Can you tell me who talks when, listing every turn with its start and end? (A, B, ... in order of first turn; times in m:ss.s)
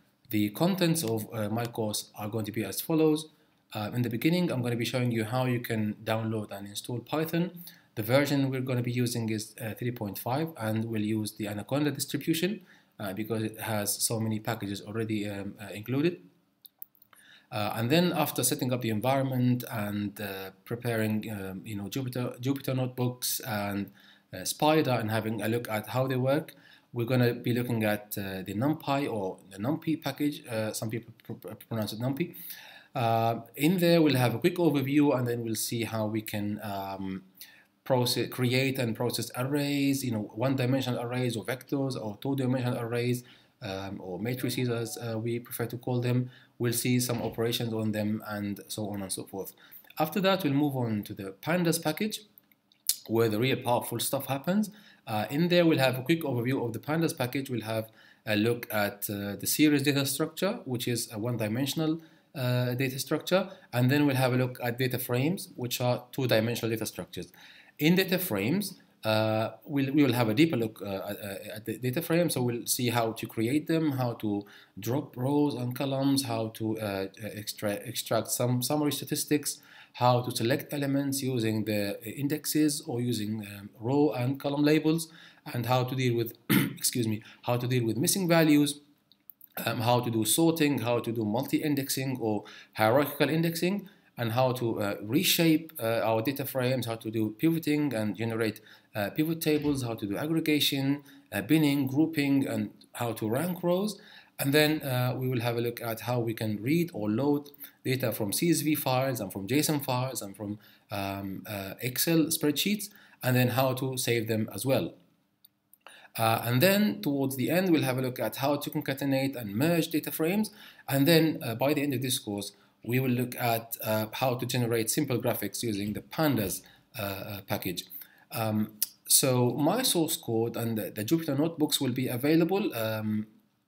0:00.3-0:16.2 A
0:17.5-0:32.3 A
0:32.9-0:37.2 A
0:37.8-0:52.2 A
0:53.1-1:28.8 A
1:29.6-1:54.9 A
1:56.1-2:13.3 A